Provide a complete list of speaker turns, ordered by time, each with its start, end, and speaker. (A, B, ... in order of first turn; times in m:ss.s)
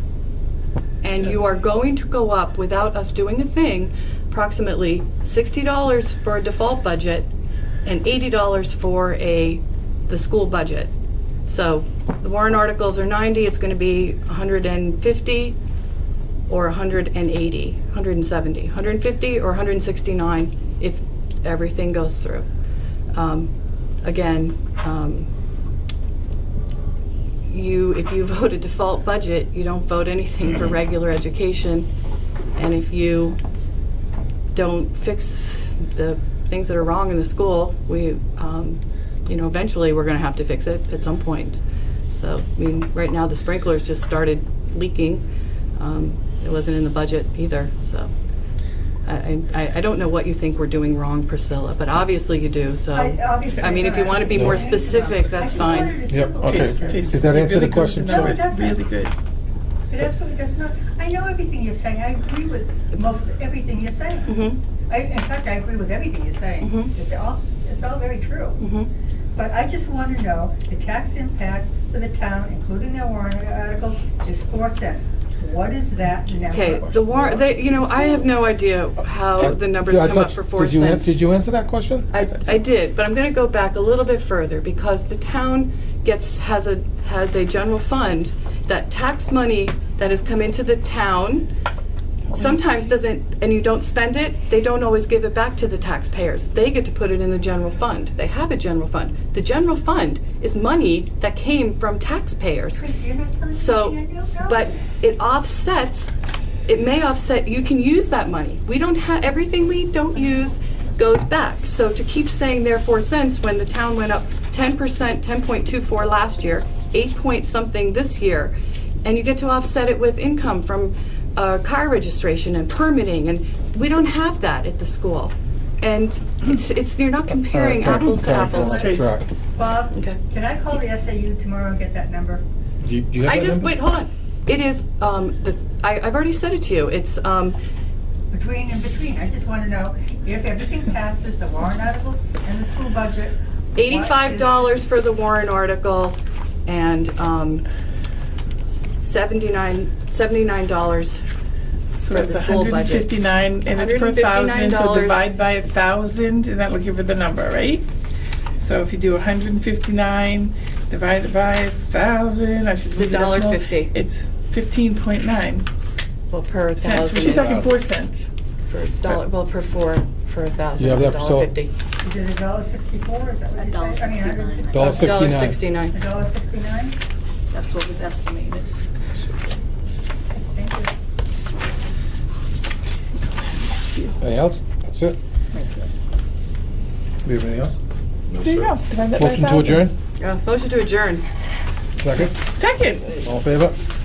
0:01.0-0:07.3 A
0:07.8-0:10.9 A
0:11.5-0:15.6 A
0:16.5-0:22.5 A
0:23.1-0:23.5 A
0:24.0-0:25.3 A
0:27.5-0:31.9 A
0:32.6-0:33.4 A
0:34.5-0:41.6 A
0:42.1-0:45.2 A
0:45.8-0:48.1 A
0:49.0-0:56.0 A
0:52.9-0:57.3 B
0:54.3-0:54.6 C
0:56.1-0:58.4 C
0:56.4-0:59.1 D
0:58.0-0:58.8 B
0:59.9-1:08.6 B
1:04.2-1:04.6 A
1:06.6-1:06.9 A
1:08.6-1:08.9 A
1:09.3-1:18.3 B
1:16.5-1:21.1 A
1:19.4-1:22.1 C
1:22.1-1:31.5 A
1:32.3-1:32.6 D
1:32.3-1:42.8 A
1:42.8-1:44.7 B
1:43.5-1:46.1 A
1:46.7-2:08.9 A
2:07.5-2:09.3 C
2:08.4-2:12.4 B
2:08.7-2:09.1 D
2:09.9-2:10.2 A
2:12.8-2:13.7 C
2:13.2-2:17.6 A
2:18.3-2:24.7 B
2:23.8-2:27.6 A
2:29.0-2:31.2 A
2:31.9-2:37.9 D
2:32.1-2:33.1 A
2:33.7-2:35.2 A
2:38.6-2:45.7 D
2:42.9-2:43.9 A
2:46.3-2:47.8 A
2:46.8-2:48.3 D
2:48.7-2:51.7 A
2:50.8-2:51.5 C
2:52.0-2:55.0 B
2:53.5-2:54.9 E
2:54.6-2:56.0 A
2:54.7-2:55.6 C
2:55.9-2:57.0 B
2:57.5-2:58.7 E
3:00.3-3:00.9 B
3:04.2-3:05.2 C
3:07.2-3:07.8 C
3:08.3-3:09.9 D
3:09.1-3:09.9 C
3:10.2-3:11.2 A
3:12.0-3:12.4 C
3:12.5-3:13.2 D
3:13.2-3:13.8 C